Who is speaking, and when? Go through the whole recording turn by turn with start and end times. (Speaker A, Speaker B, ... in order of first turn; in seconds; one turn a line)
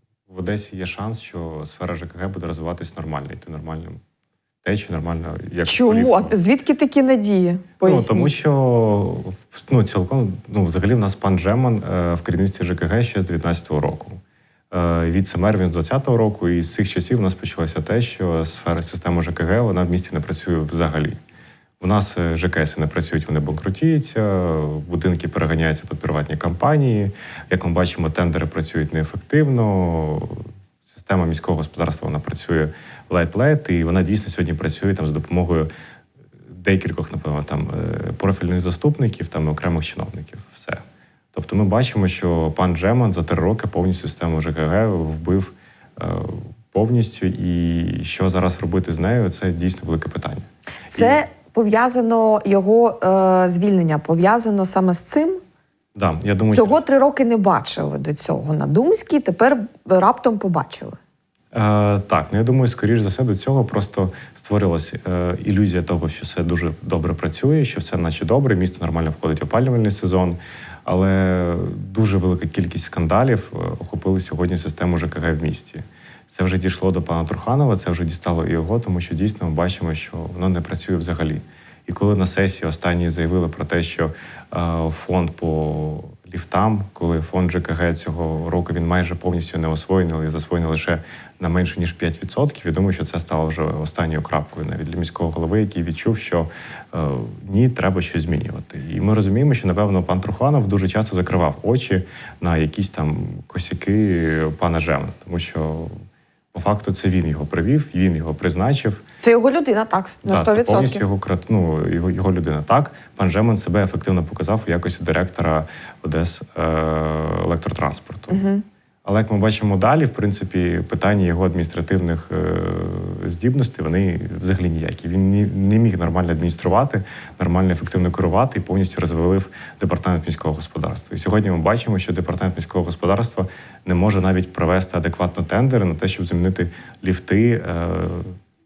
Speaker A: 0.3-4.0
Speaker A: 4.6-6.3
Speaker B: 5.7-8.3
Speaker A: 7.8-14.2
Speaker A: 14.7-21.2
Speaker A: 21.8-35.7
Speaker A: 36.5-51.2
Speaker B: 50.9-55.4
Speaker A: 55.9-56.7
Speaker B: 56.5-61.0
Speaker A: 61.5-105.9
Speaker A: 106.5-109.0
Speaker B: 109.2-111.0
Speaker A: 110.2-118.4
Speaker B: 118.3-118.6
Speaker A: 119.0-138.3